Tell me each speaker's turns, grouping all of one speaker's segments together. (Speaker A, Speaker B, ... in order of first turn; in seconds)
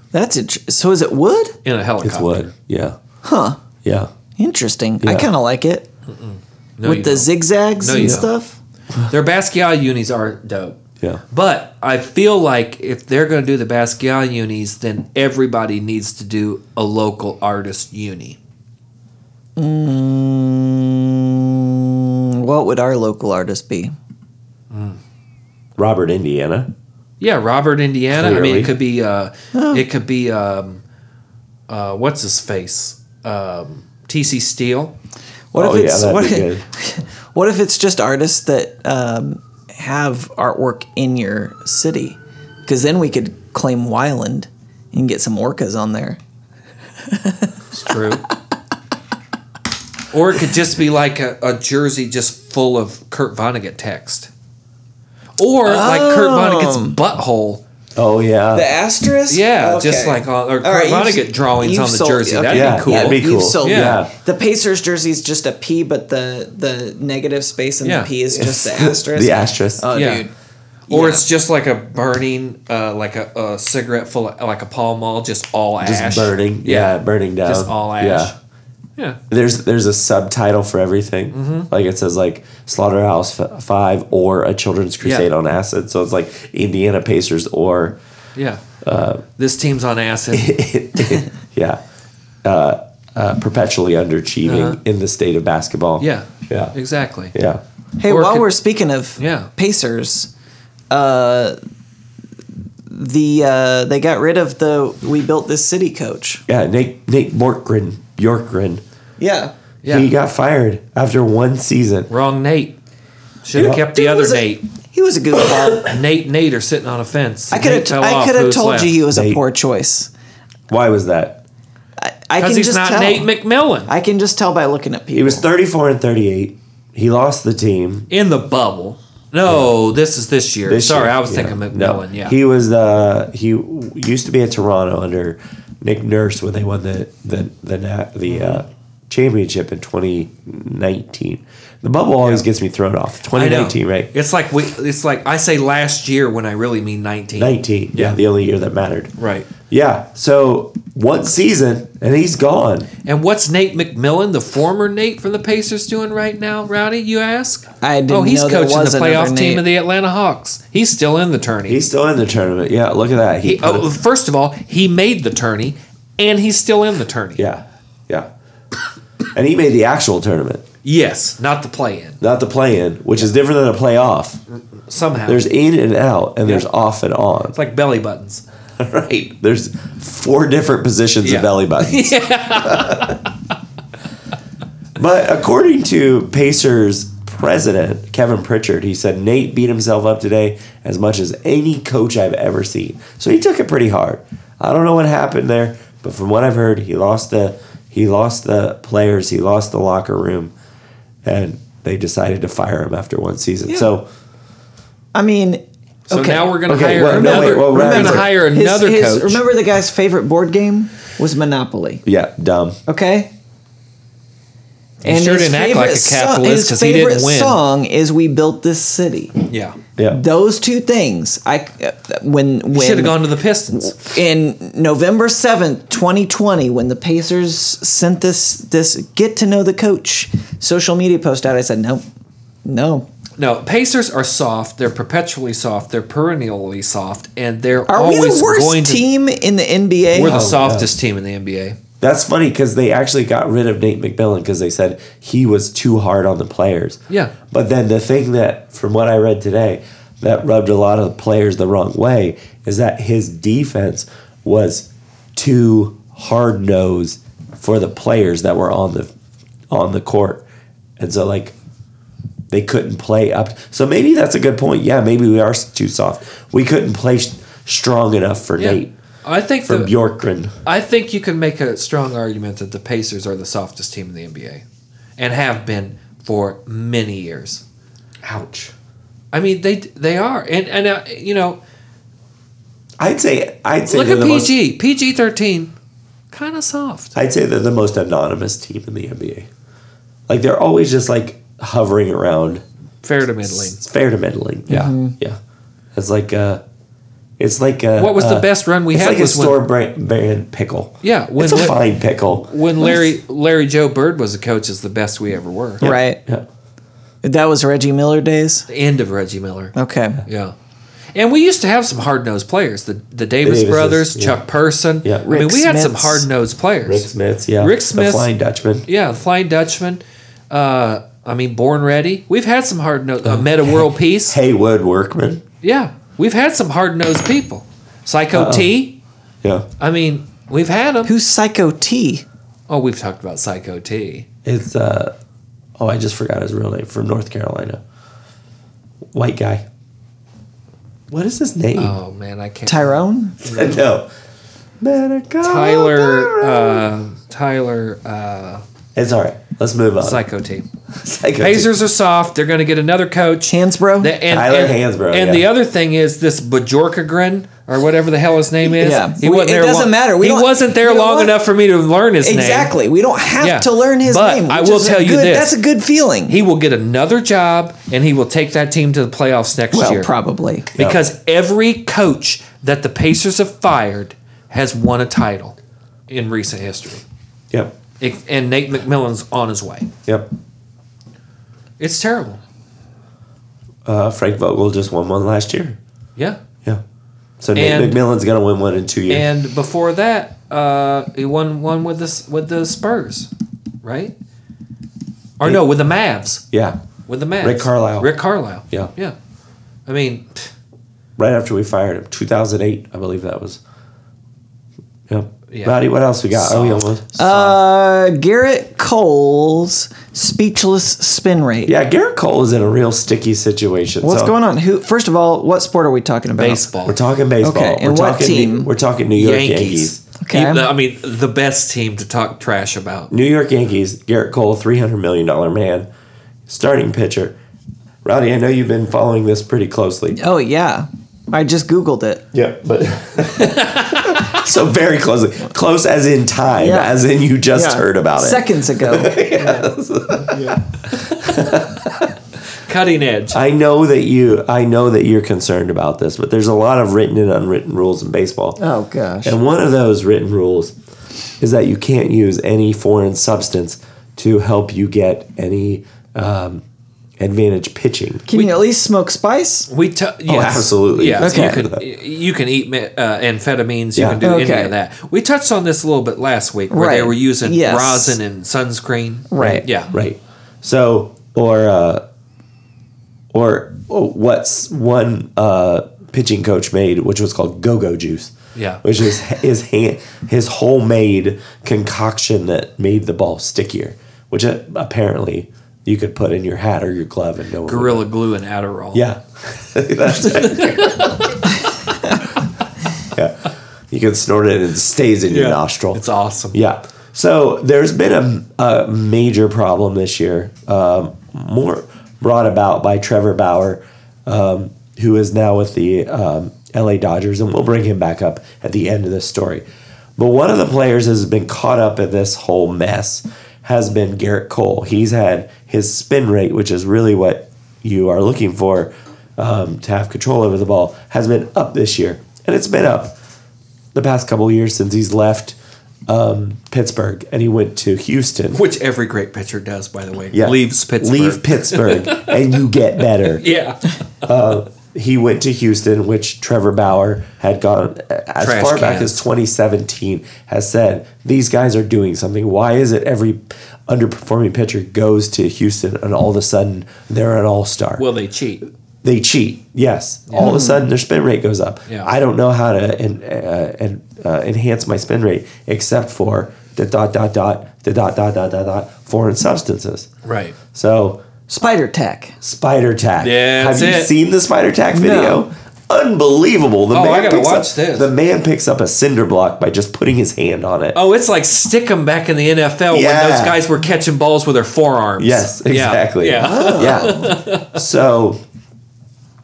Speaker A: 0.1-1.6, 3.2-3.6, 4.4-5.9, 6.8-8.6, 19.6-23.9, 29.5-29.8, 35.5-46.2, 47.0-47.5, 55.6-57.0, 58.5-70.3, 70.9-71.2, 98.0-100.3, 100.9-101.6, 102.9-106.4, 109.2-109.5, 113.9-115.9, 117.5-120.1, 122.0-123.3, 123.9-125.5, 157.8-159.6, 205.1-212.0, 212.9-213.3, 215.0-219.4, 220.1-223.2, 223.7-232.0, 232.6-233.1, 237.9-240.5, 294.7-295.1, 305.8-306.2, 307.2-308.7, 309.8-310.2, 315.3-316.2, 331.0-332.2, 342.7-343.4, 353.5-354.1, 358.6-361.4, 362.2-366.4, 369.7-370.7, 407.1-411.7, 414.0-416.6, 417.4-418.7, 420.2-420.7, 430.1-432.2, 436.6-436.9, 437.5-439.2, 448.6-449.4, 458.3-459.7, 461.2-461.6, 464.2-464.7, 466.7-468.2, 469.3-469.6, 550.4-550.8, 561.5-562.4, 564.9-565.4, 576.4-577.4
Speaker B: 1.6-2.5, 6.1-8.3, 9.0-10.8, 11.3-18.4, 24.7-25.0, 27.2-30.8, 31.7-34.9, 47.7-48.2, 50.1-54.3, 55.4-57.6, 59.3-64.0, 67.8-68.1, 69.9-70.3, 70.9-78.3, 81.3-81.7, 85.0-85.3, 88.3-88.6, 89.4-90.5, 94.4-94.8, 96.0-97.3, 98.0-98.5, 99.2-99.5, 109.8-110.1, 112.1-112.8, 113.4-114.6, 115.7-119.0, 122.4-123.9, 128.1-132.3, 138.3-138.6, 143.3-148.2, 149.2-149.5, 153.0-161.8, 163.4-167.4, 170.8-172.2, 174.8-175.4, 177.5-178.4, 181.2-183.3, 206.1-209.4, 215.0-217.6, 219.5-219.8, 222.7-224.0, 233.4-239.1, 240.1-241.8, 247.1-247.3, 268.6-269.9, 270.6-274.6, 275.2-277.6, 279.3-281.6, 283.9-285.7, 286.3-287.1, 293.0-293.8, 298.0-299.6, 301.0-305.9, 308.7-310.5, 311.1-317.1, 317.6-318.3, 318.9-324.4, 325.6-329.0, 329.8-331.1, 332.7-334.2, 341.8-343.8, 345.4-348.6, 350.0-350.6, 351.4-362.7, 363.4-365.6, 366.3-370.1, 370.8-375.6, 376.1-377.0, 378.0-379.9, 381.8-382.4, 387.6-388.0, 389.1-393.3, 393.8-394.1, 395.4-396.4, 397.1-399.1, 399.9-400.5, 405.5-405.8, 406.3-406.9, 416.4-417.0, 419.1-423.1, 433.3-434.3, 439.4-439.7, 440.3-440.6, 442.6-443.4, 458.3-458.6, 459.7-469.9, 478.5-478.8, 487.6-489.1, 490.2-491.1, 495.3-496.6, 528.5-532.4, 533.2-533.9, 538.4-539.2, 548.0-548.6, 550.3-550.6, 560.2-560.6, 563.2-564.1, 566.9-568.1, 570.9-577.8
Speaker C: 2.0-3.0, 3.8-4.1, 5.0-5.3, 8.0-8.2, 25.8-26.7, 28.1-28.7, 35.5-36.6, 58.0-58.7, 62.5-64.1, 68.3-69.9, 75.8-78.3, 79.3-88.0, 88.8-89.2, 90.3-91.8, 92.4-96.7, 97.3-97.6, 106.5-108.8, 109.8-112.1, 113.5-113.8, 119.1-119.4, 120.7-121.4, 125.1-128.1, 129.5-129.7, 130.7-144.1, 147.4-149.2, 149.7-152.9, 161.7-163.9, 167.4-168.3, 169.3-170.7, 172.2-174.4, 175.2-177.6, 178.8-183.2, 184.9-200.5, 201.2-204.1, 206.7-208.3, 212.0-212.8, 240.2-240.9, 242.0-259.1, 259.7-260.4, 261.0-261.5, 262.5-268.9, 269.6-270.5, 278.2-278.7, 283.0-284.5, 287.1-289.5, 290.3-292.6, 293.4-295.4, 295.9-296.6, 297.4-302.5, 305.8-306.4, 313.4-314.4, 316.8-318.9, 323.2-325.4, 328.3-328.7, 334.4-335.1, 335.8-337.8, 339.1-339.6, 341.1-342.0, 343.4-344.1, 344.8-346.9, 348.9-350.2, 350.9-351.7, 354.3-355.5, 370.8-371.0, 377.5-377.8, 383.8-385.8, 387.4-389.3, 396.5-396.8, 397.4-398.1, 401.2-403.6, 405.1-407.5, 411.6-414.3, 416.8-420.0, 423.1-425.9, 426.5-427.4, 428.0-430.2, 432.3-442.1, 443.3-448.6, 449.2-450.7, 451.4-456.6, 457.2-458.3, 460.3-461.8, 463.9-464.2, 469.4-472.0, 473.3-488.0, 488.9-491.5, 493.0-496.0, 496.5-509.6, 510.2-523.2, 523.9-525.5, 526.1-528.6, 530.3-533.4, 534.2-548.1, 549.0-560.1, 560.7-561.2, 562.4-571.0, 572.9-573.6, 575.2-578.4